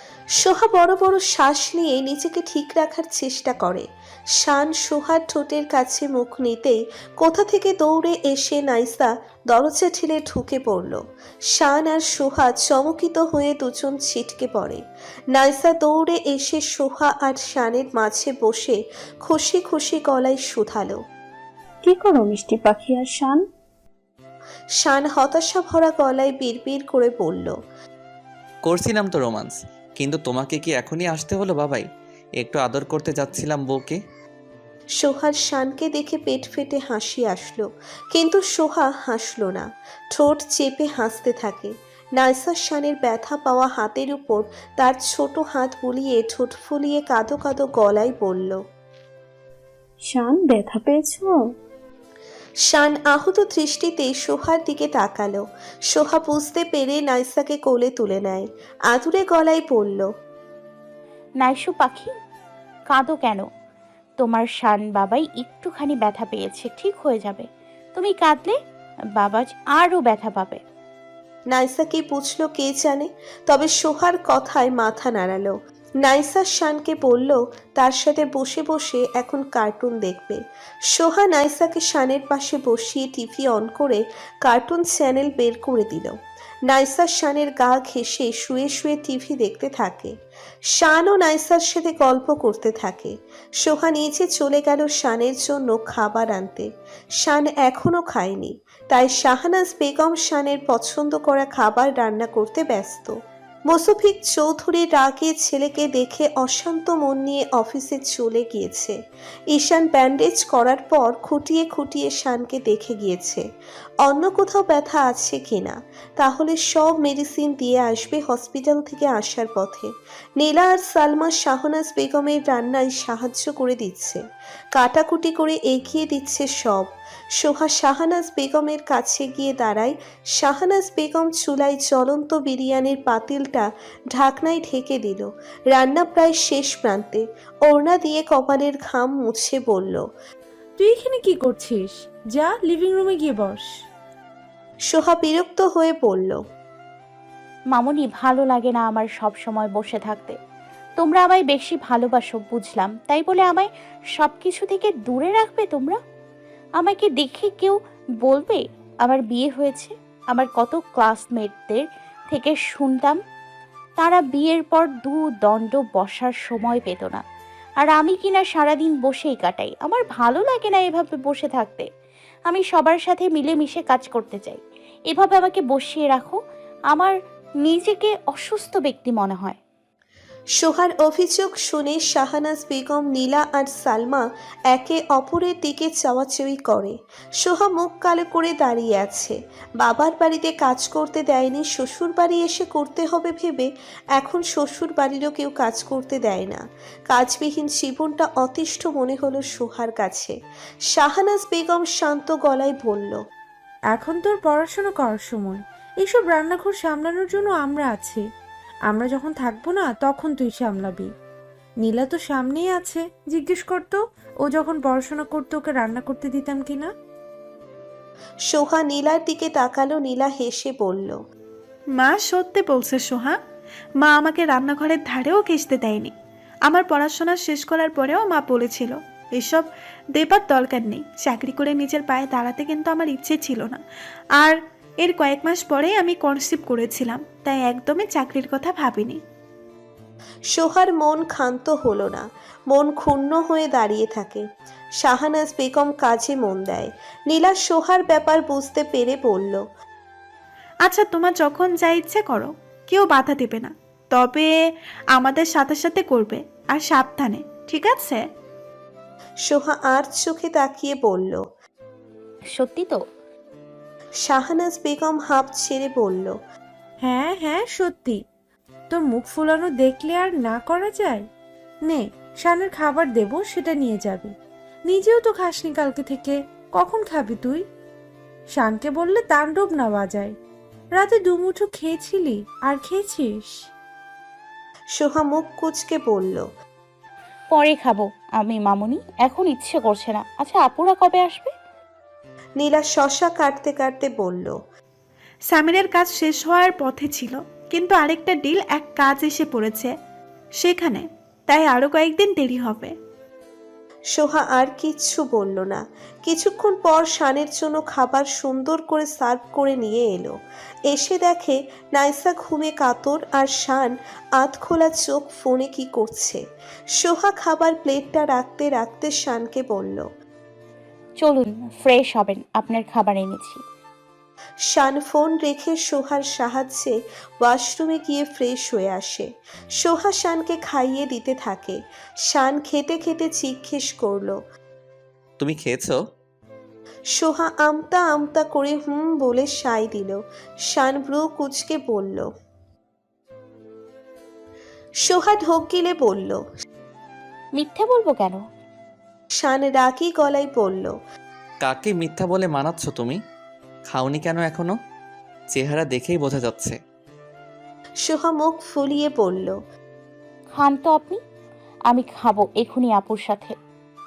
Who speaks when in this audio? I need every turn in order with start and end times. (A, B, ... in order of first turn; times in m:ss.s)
0:00.4-0:03.8 A
0:04.4-0:11.0 A
0:11.5-0:21.0 A
0:21.8-0:23.5 B
0:24.8-0:27.5 A
0:28.6-0:31.8 C
0:32.4-0:34.0 C
0:35.0-0:48.6 A
0:50.0-0:51.5 B
0:52.6-1:00.1 A
1:01.4-1:02.1 D
1:02.9-1:03.4 D
1:04.2-1:08.5 D
1:09.2-1:10.6 D
1:11.5-1:26.1 A
1:26.7-1:30.1 A
1:30.7-1:36.7 A
1:37.2-1:43.1 A
1:43.7-1:48.9 A
1:49.5-1:53.4 A
1:54.0-2:04.2 A
2:04.7-2:20.0 A
2:20.8-2:23.7 E
2:24.9-2:26.4 A
2:27.7-2:30.4 D
2:31.0-2:36.0 D
2:36.8-2:43.2 D
2:44.0-2:47.2 D
2:47.8-2:51.8 D
2:52.5-2:56.4 D
2:56.9-2:59.6 D
3:00.6-3:20.3 A
3:20.9-3:23.2 A
3:23.9-3:28.2 E
3:28.9-3:31.1 E
3:31.8-3:36.9 E
3:38.5-3:41.2 A
3:41.9-3:43.4 F
3:44.0-3:46.1 F
3:46.6-3:53.8 F
3:54.4-3:59.2 F
4:00.5-4:04.4 A
4:05.0-4:09.6 A
4:10.8-4:18.3 F
4:19.4-4:21.4 A
4:22.5-4:23.0 D
4:24.2-4:26.4 A
4:27.0-4:28.2 E
4:28.9-4:31.2 E
4:31.8-4:34.3 E
4:34.8-4:37.6 E
4:38.5-4:40.4 E
4:40.9-4:43.6 E
4:45.0-4:46.5 A
4:47.5-4:51.5 D
4:52.6-4:54.5 A
4:55.5-4:59.9 F
5:00.6-5:03.0 F
5:04.1-5:10.3 A
5:10.9-5:16.4 A
5:16.9-5:20.1 A
5:21.2-5:23.6 D
5:24.6-5:34.4 A
5:35.4-5:36.0 C
5:37.1-5:42.3 A
5:45.0-5:46.4 A
5:47.6-5:48.4 D
5:49.4-5:50.9 A
5:51.6-5:53.2 C
5:53.9-5:54.7 C
5:55.5-5:56.8 C
5:58.0-5:59.6 A
6:00.5-6:01.2 D
6:01.9-6:03.5 D